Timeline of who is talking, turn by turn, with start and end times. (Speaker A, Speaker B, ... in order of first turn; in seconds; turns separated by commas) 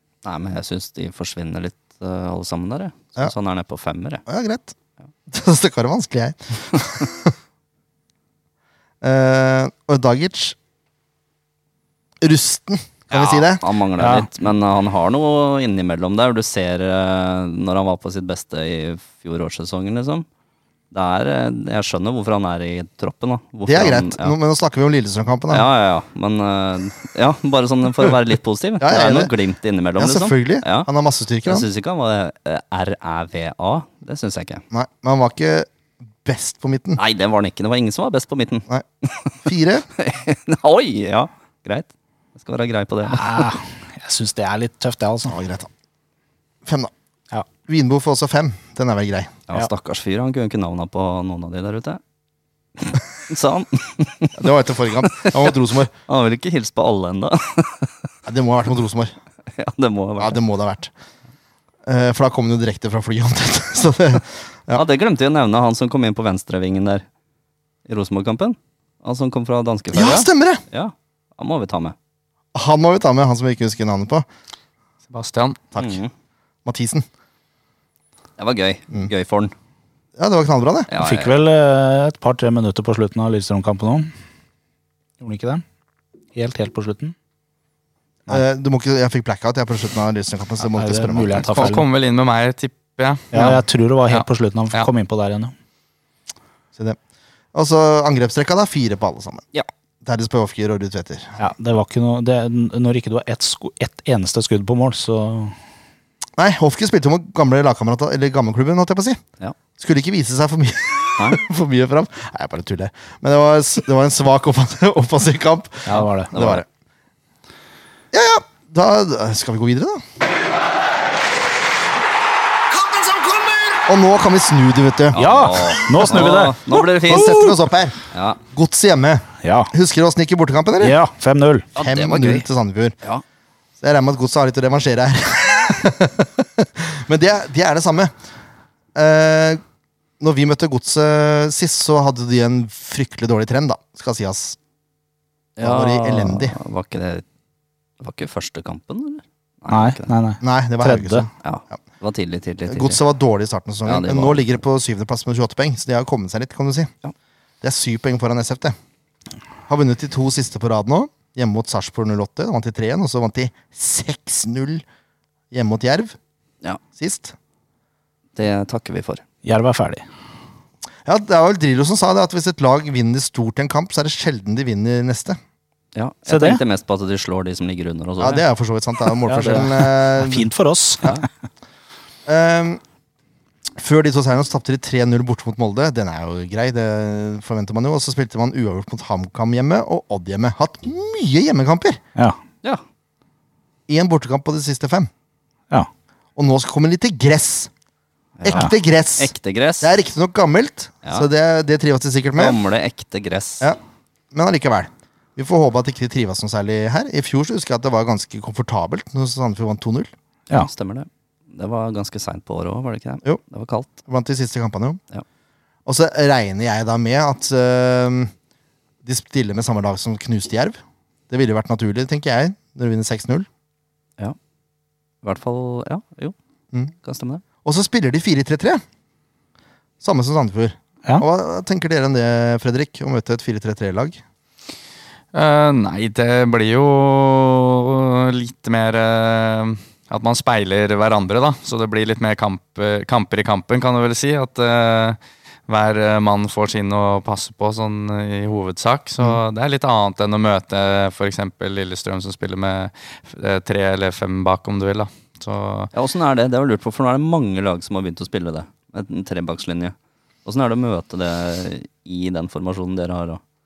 Speaker A: 0.2-4.2, Speaker B: 4.3-4.7, Speaker B: 5.3-7.3, Speaker B: 9.0-10.6, Speaker B: 12.2-13.6, Speaker A: 13.1-20.3, Speaker C: 14.0-14.3, Speaker A: 20.9-24.3, Speaker B: 23.7-25.7, Speaker A: 25.5-30.9, Speaker B: 28.8-29.3, Speaker B: 30.0-31.7, Speaker A: 31.4-34.6, Speaker B: 34.7-35.7, Speaker B: 36.2-37.0, Speaker A: 37.0-39.4, Speaker B: 39.5-39.9, Speaker A: 40.0-43.4, Speaker C: 43.1-45.4, Speaker B: 45.3-45.7, Speaker B: 46.6-46.9, Speaker B: 47.7-49.4, Speaker A: 49.5-52.0, Speaker A: 52.8-54.5, Speaker B: 54.4-55.9, Speaker A: 56.1-57.9, Speaker B: 58.3-59.1, Speaker A: 59.5-60.4, Speaker B: 60.2-60.9, Speaker B: 61.9-64.8, Speaker A: 64.7-67.0, Speaker A: 67.9-72.0, Speaker B: 69.9-70.6, Speaker B: 72.5-74.2, Speaker D: 75.1-75.6, Speaker A: 75.8-76.1, Speaker B: 76.7-77.1, Speaker A: 78.4-79.5, Speaker B: 80.2-80.9, Speaker A: 80.9-81.3, Speaker C: 81.0-84.1, Speaker C: 85.2-85.6, Speaker C: 86.3-87.2, Speaker B: 88.3-91.7, Speaker C: 90.7-91.9, Speaker D: 91.4-94.9, Speaker C: 93.3-95.5, Speaker B: 97.5-99.4, Speaker B: 100.0-101.4, Speaker C: 101.4-105.5, Speaker B: 106.4-109.2, Speaker B: 109.8-116.7, Speaker C: 115.9-116.3, Speaker A: 115.9-116.6, Speaker B: 118.1-120.0, Speaker B: 123.7-125.2, Speaker A: 125.1-127.6, Speaker C: 125.2-126.8, Speaker B: 127.0-128.0, Speaker A: 128.1-128.4, Speaker B: 128.5-131.0, Speaker C: 129.4-129.7, Speaker C: 130.8-131.7, Speaker A: 131.8-132.4, Speaker B: 131.8-132.9, Speaker B: 133.8-138.1, Speaker B: 138.9-139.6, Speaker B: 140.2-144.6, Speaker A: 145.6-147.2, Speaker B: 145.6-146.6, Speaker A: 148.0-150.1, Speaker C: 149.7-151.3, Speaker B: 150.4-151.3, Speaker A: 151.4-153.0, Speaker B: 152.7-156.9, Speaker A: 153.8-154.6, Speaker B: 157.6-158.8, Speaker B: 159.7-164.8, Speaker B: 165.5-166.2, Speaker B: 166.9-167.3, Speaker A: 168.4-169.2, Speaker C: 169.4-170.0, Speaker B: 171.1-175.4, Speaker A: 175.9-178.4, Speaker C: 176.3-176.6, Speaker B: 178.2-180.5, Speaker C: 179.3-181.2, Speaker B: 182.3-182.8, Speaker B: 183.8-192.0, Speaker B: 193.9-195.1, Speaker B: 196.4-197.7, Speaker A: 198.4-199.9, Speaker B: 198.4-202.6, Speaker A: 202.4-203.7, Speaker B: 204.3-210.1, Speaker A: 210.6-213.9, Speaker B: 214.1-215.0, Speaker B: 215.9-218.3, Speaker B: 219.0-220.8, Speaker B: 221.3-223.5, Speaker A: 225.2-226.3, Speaker A: 227.0-227.4, Speaker B: 227.7-228.8, Speaker B: 230.0-234.2, Speaker D: 235.3-255.9, Speaker A: 255.9-259.9, Speaker A: 260.4-263.4